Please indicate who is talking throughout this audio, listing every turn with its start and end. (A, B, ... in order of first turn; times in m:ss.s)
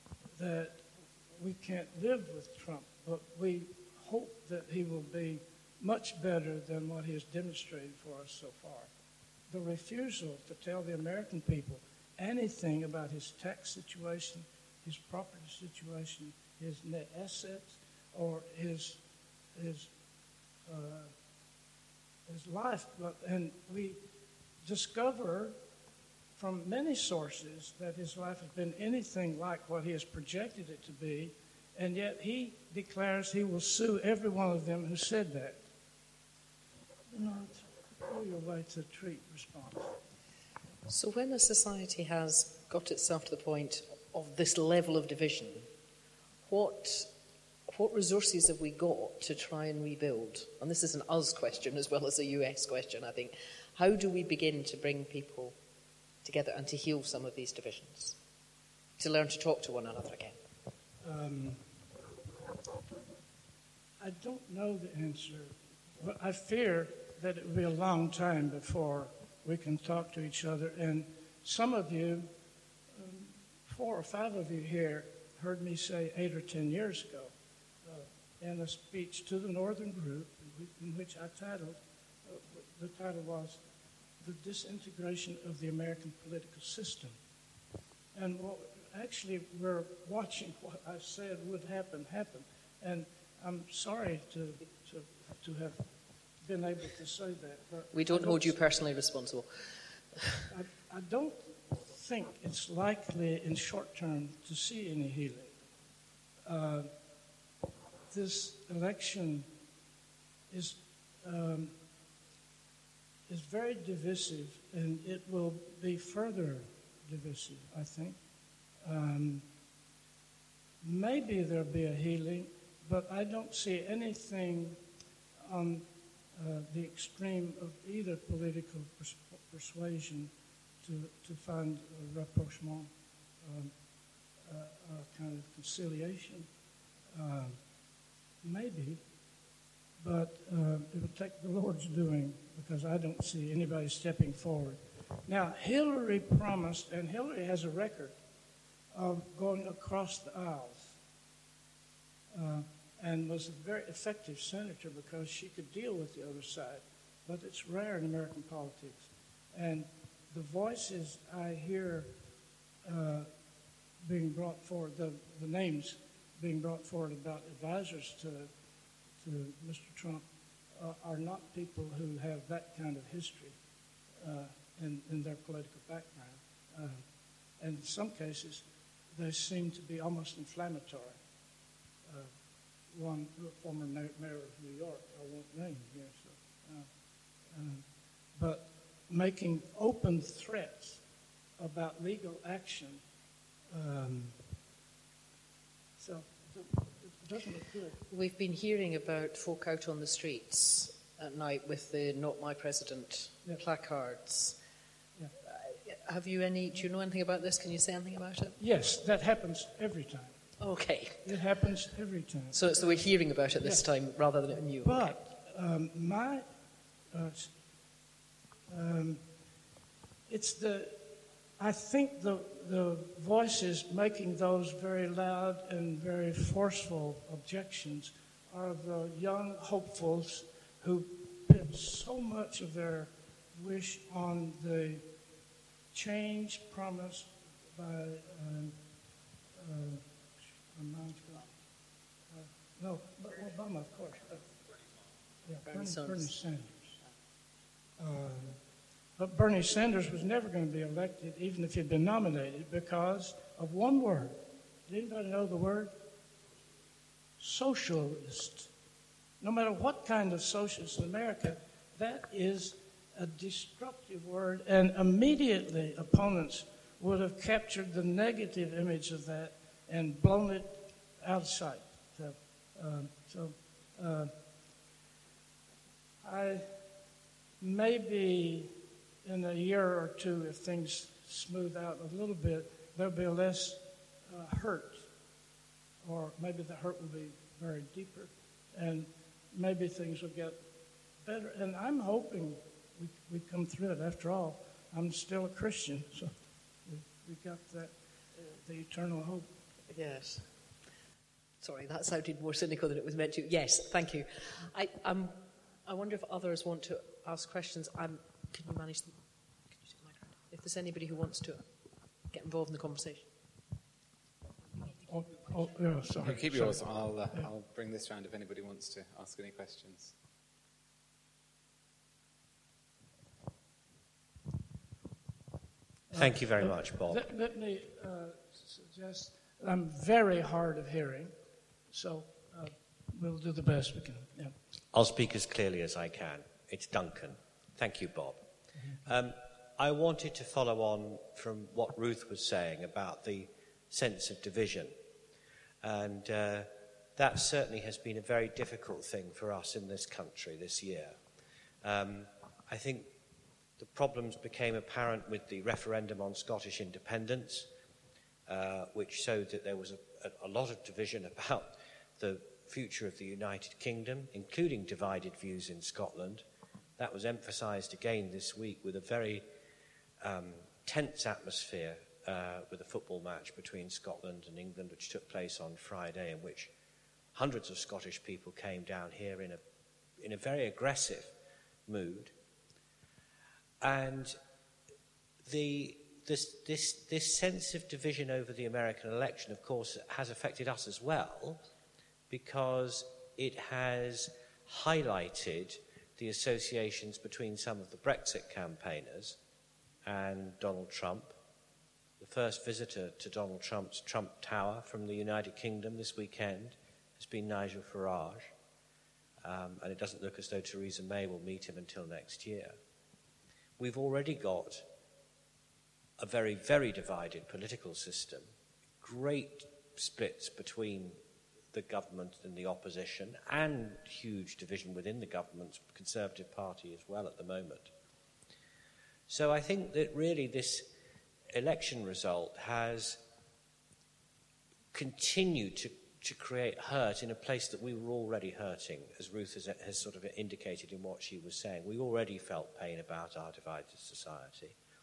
0:00.4-0:08.9 A
0:09.5-0:19.0 A
0:19.6-0:19.9 A
0:20.7-0:21.1 A
0:22.3-0:24.0 A
0:24.6-0:25.6 A
0:26.4-0:35.6 A
0:37.1-0:40.0 A
0:40.9-0:45.7 B
0:46.5-0:47.1 B
0:47.7-0:55.6 B
0:56.2-0:58.2 B
0:59.0-1:00.4 B
1:01.0-1:01.6 A
1:04.0-1:12.3 A
1:12.9-1:17.3 A
1:17.8-1:23.6 A
1:24.2-1:27.2 A
1:28.1-1:35.8 A
1:36.4-1:38.6 A
1:37.9-1:40.4 B
1:40.5-1:45.5 A
1:46.5-1:46.9 A
1:48.1-1:49.5 A
1:50.5-1:51.8 A
1:53.3-1:58.2 A
1:58.8-1:59.5 A
2:00.8-2:04.8 A
2:05.4-2:10.3 A
2:10.8-2:12.9 A
2:13.4-2:13.7 A
2:14.4-2:16.5 A
2:17.1-2:17.6 A
2:18.4-2:19.0 A
2:20.0-2:28.2 A
2:28.9-2:31.0 A
2:32.3-2:42.1 A
2:42.8-2:43.3 A
2:44.0-2:48.5 A
2:49.2-2:53.6 A
2:54.2-2:57.0 A
2:57.6-2:58.6 A
2:59.2-3:01.2 A
3:02.1-3:02.3 A
3:02.9-3:06.9 A
3:07.5-3:07.8 A
3:08.4-3:11.0 A
3:11.6-3:13.0 A
3:13.7-3:14.4 A
3:16.0-3:18.0 A
3:18.1-3:24.6 B
3:25.4-3:28.6 B
3:28.6-3:30.4 A
3:30.6-3:31.4 B
3:31.2-3:32.8 A
3:32.5-3:35.2 B
3:34.8-3:36.4 A
3:37.1-3:37.5 A
3:38.7-3:39.2 A
3:40.3-3:55.0 A
3:55.9-3:58.8 A
3:59.6-4:00.1 A
4:00.7-4:01.5 A
4:02.3-4:04.5 A
4:05.4-4:07.0 A
4:05.7-4:06.3 B
4:08.0-4:08.6 A
4:09.2-4:15.9 A
4:17.4-4:18.7 A
4:19.4-4:34.3 A
4:36.2-4:36.7 A
4:37.6-4:38.7 A
4:39.2-4:45.1 A
4:46.0-4:50.6 A
4:51.2-4:56.3 A
4:56.9-4:59.5 A
4:59.9-5:00.5 B
5:01.6-5:09.2 B
5:09.7-5:11.6 B
5:12.3-5:13.3 B
5:15.1-5:16.8 A
5:16.2-5:20.1 C
5:26.1-5:31.3 A
5:26.1-5:27.2 D
5:31.9-5:34.6 A
5:34.9-5:38.4 D
5:39.0-5:44.9 D
5:45.8-5:51.2 D
5:51.8-5:53.1 D
5:53.8-5:57.7 D
5:58.5-6:06.4 D
6:07.0-6:09.4 D
6:10.2-6:16.7 D
6:17.3-6:19.6 D
6:20.2-6:21.3 D
6:21.9-6:22.3 D
6:23.8-6:24.4 D
6:25.4-6:31.6 D
6:32.3-6:39.4 D
6:40.1-6:41.4 D
6:42.2-6:48.5 D
6:49.4-6:52.8 D
6:53.8-6:54.8 D
6:56.2-6:58.5 D
6:59.0-7:01.2 D
7:01.7-7:07.9 D
7:09.3-7:10.9 D
7:11.5-7:13.2 D
7:14.9-7:24.8 D